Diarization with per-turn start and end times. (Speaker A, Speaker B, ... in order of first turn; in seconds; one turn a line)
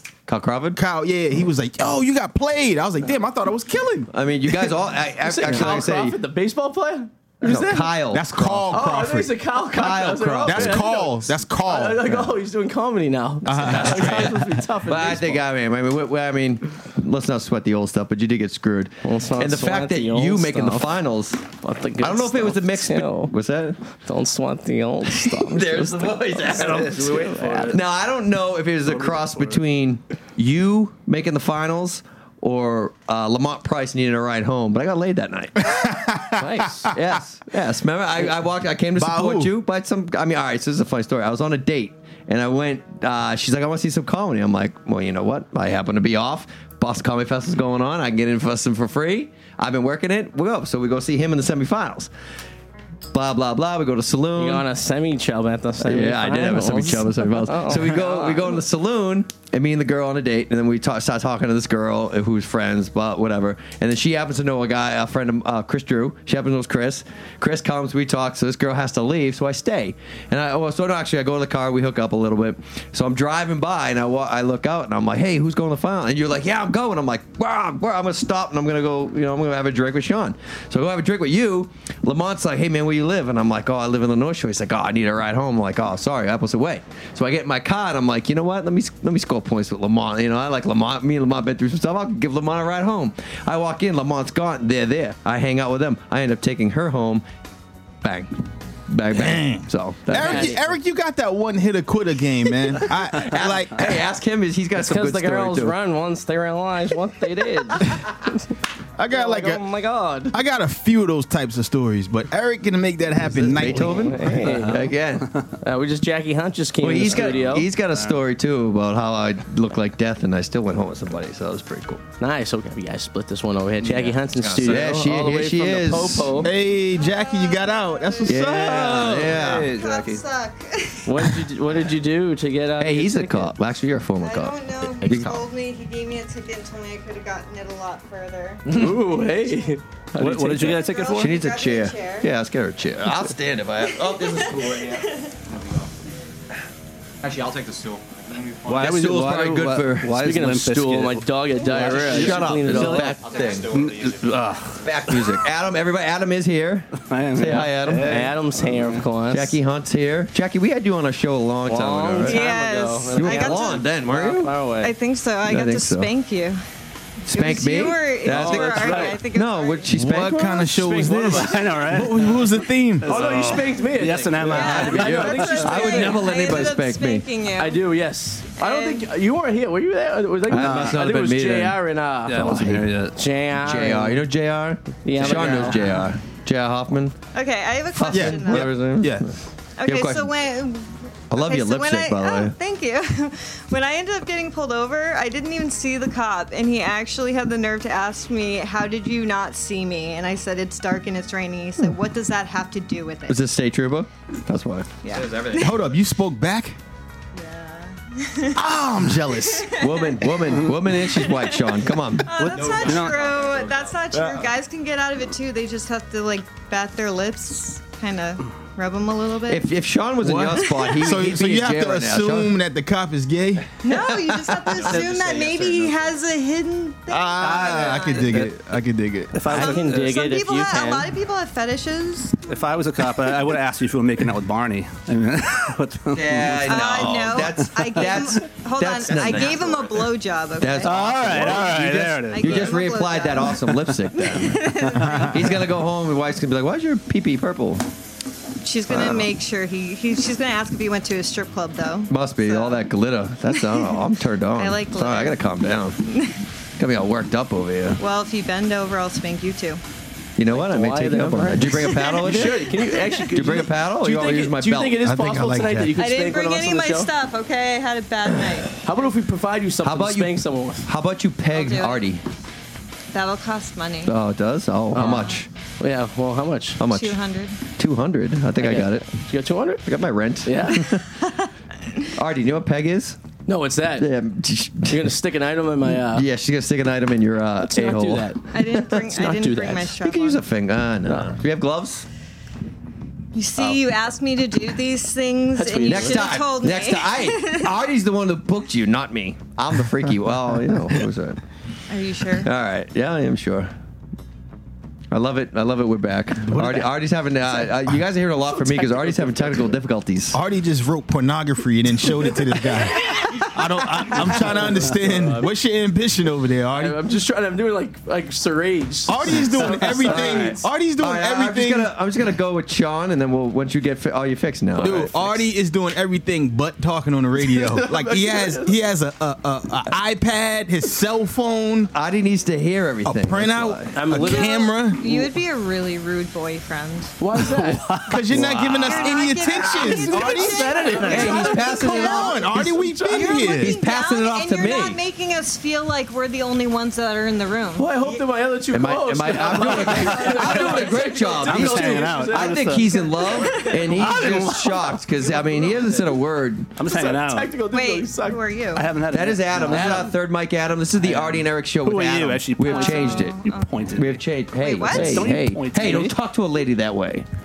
Speaker A: 0.3-0.8
Speaker B: 0.8-4.7
Speaker A: 4.1-6.2
Speaker C: 5.2-7.9
Speaker A: 7.4-8.9
Speaker B: 8.1-9.3
Speaker C: 8.7-15.4
Speaker A: 9.7-10.9
Speaker B: 10.4-12.3
Speaker B: 13.4-14.4
Speaker A: 13.4-23.8
Speaker C: 19.0-20.9
Speaker C: 21.6-23.3
Speaker C: 24.0-27.8
Speaker A: 25.2-52.1
Speaker D: 26.5-27.8
Speaker B: 35.6-36.6
Speaker C: 36.4-36.9
Speaker B: 39.0-39.5
Speaker A: 53.1-54.6
Speaker C: 54.4-58.6
Speaker A: 55.8-97.2
Speaker A: 98.0-98.3
Speaker A: 98.9-100.6
Speaker B: 99.1-103.9
Speaker C: 100.1-100.6
Speaker A: 103.1-105.8
Speaker C: 104.8-108.1
Speaker B: 109.0-109.6
Speaker C: 109.1-110.3
Speaker B: 110.3-114.2
Speaker A: 113.2-115.3
Speaker C: 113.7-114.8
Speaker D: 114.3-114.9
Speaker C: 115.6-117.7
Speaker A: 116.8-122.0
Speaker D: 117.0-118.2
Speaker C: 122.2-126.5
Speaker E: 123.8-124.9
Speaker A: 124.6-126.4
Speaker B: 126.4-129.2
Speaker F: 126.7-128.4
Speaker A: 128.3-129.7
Speaker D: 128.7-130.2
Speaker F: 129.4-131.4
Speaker C: 131.1-133.5
Speaker A: 132.8-135.4
Speaker F: 134.2-138.8
Speaker C: 135.0-135.3
Speaker C: 138.7-140.8
Speaker D: 140.2-141.4
Speaker F: 140.7-142.3
Speaker A: 141.1-145.0
Speaker F: 143.9-145.3
Speaker E: 145.5-145.9
Speaker E: 147.2-149.0
Speaker A: 148.7-150.5
Speaker D: 148.7-155.3
Speaker C: 150.0-153.1
Speaker A: 151.7-153.7
Speaker E: 153.2-154.3
Speaker A: 154.8-158.3
Speaker D: 156.9-159.0
Speaker C: 157.5-159.6
Speaker A: 159.3-162.4
Speaker C: 161.7-164.9
Speaker F: 162.2-163.9
Speaker A: 163.2-164.5
Speaker F: 164.8-166.6
Speaker A: 165.4-166.1
Speaker A: 167.3-171.6
Speaker D: 167.3-167.6
Speaker F: 167.4-169.9
Speaker D: 168.3-169.2
Speaker C: 168.6-169.1
Speaker B: 169.9-173.6
Speaker D: 171.2-176.3
Speaker C: 173.1-175.8
Speaker F: 174.4-177.8
Speaker A: 174.8-177.3
Speaker C: 177.6-184.2
Speaker F: 178.6-179.1
Speaker A: 180.5-181.8
Speaker B: 180.5-181.0
Speaker D: 182.3-183.2
Speaker A: 182.4-182.8
Speaker A: 183.6-187.2
Speaker C: 185.0-185.8
Speaker D: 185.2-186.0
Speaker F: 187.3-188.7
Speaker A: 187.9-190.3
Speaker B: 188.1-189.3
Speaker F: 189.8-203.4
Speaker A: 191.3-192.5
Speaker A: 203.3-205.0
Speaker F: 205.0-205.4
Speaker E: 205.1-205.7
Speaker B: 205.6-206.8
Speaker F: 207.3-208.7
Speaker B: 208.5-209.8
Speaker F: 209.3-210.4
Speaker A: 209.8-212.3
Speaker F: 211.0-219.7
Speaker D: 212.3-213.2
Speaker E: 212.4-214.3
Speaker A: 219.5-222.5
Speaker B: 220.2-223.7
Speaker F: 220.4-221.2
Speaker F: 223.8-228.4
Speaker A: 223.9-224.9
Speaker D: 224.9-225.7
Speaker E: 224.9-225.8
Speaker B: 227.1-229.4
Speaker D: 229.3-230.2
Speaker F: 229.5-232.6
Speaker C: 229.5-231.1
Speaker D: 232.4-237.9
Speaker A: 236.1-239.8
Speaker F: 236.7-245.3
Speaker E: 239.1-240.0
Speaker A: 240.6-247.9
Speaker D: 240.8-242.8
Speaker D: 244.8-245.3
Speaker B: 245.0-245.3
Speaker F: 248.6-252.8
Speaker A: 248.9-249.3
Speaker A: 252.1-256.0
Speaker F: 253.5-254.0
Speaker F: 254.5-255.5
Speaker F: 256.0-256.4
Speaker A: 256.8-258.0
Speaker F: 258.0-259.8
Speaker A: 260.4-262.6
Speaker C: 260.5-267.1
Speaker F: 261.9-262.3
Speaker A: 263.3-265.0
Speaker B: 265.0-265.9
Speaker F: 265.9-268.7
Speaker C: 268.8-270.9
Speaker A: 269.8-272.2
Speaker F: 271.5-272.1
Speaker F: 273.1-274.1
Speaker A: 274.0-275.5
Speaker C: 274.9-276.8
Speaker A: 276.8-277.2
Speaker F: 276.9-277.6
Speaker A: 277.7-279.0
Speaker C: 278.6-279.8
Speaker A: 279.9-281.1
Speaker C: 280.4-280.9
Speaker F: 281.1-282.0
Speaker A: 282.1-283.2
Speaker C: 283.5-284.1
Speaker A: 284.0-285.1
Speaker C: 284.9-286.2
Speaker A: 285.9-288.3
Speaker C: 287.6-289.9
Speaker F: 288.5-290.4
Speaker A: 290.0-292.1
Speaker C: 291.1-291.3
Speaker F: 293.3-297.7
Speaker C: 295.5-296.4
Speaker A: 295.9-301.4
Speaker F: 301.9-302.5
Speaker A: 302.3-303.7
Speaker A: 305.1-310.4
Speaker B: 306.4-306.9
Speaker C: 308.5-309.7
Speaker B: 310.3-317.0
Speaker C: 314.8-315.5
Speaker C: 316.7-320.6
Speaker B: 319.1-321.9
Speaker A: 319.7-325.4
Speaker B: 324.8-331.9
Speaker C: 327.5-328.7
Speaker A: 331.9-334.0
Speaker B: 333.0-335.2
Speaker C: 333.9-334.6
Speaker F: 334.2-337.1
Speaker C: 337.2-338.7
Speaker D: 337.3-339.0
Speaker B: 338.1-340.7
Speaker F: 338.6-348.1
Speaker D: 339.8-341.6
Speaker C: 340.1-343.2
Speaker A: 341.1-342.4
Speaker B: 341.5-343.8
Speaker A: 343.5-345.0
Speaker C: 347.8-352.7
Speaker A: 348.7-356.7
Speaker D: 349.4-356.1
Speaker F: 352.8-353.9
Speaker D: 356.8-357.5
Speaker C: 356.8-358.4
Speaker F: 357.7-358.9
Speaker D: 358.7-360.1
Speaker A: 359.1-363.4
Speaker D: 361.0-364.2
Speaker F: 362.6-363.8
Speaker A: 363.9-367.2
Speaker F: 364.5-365.3
Speaker D: 364.8-366.2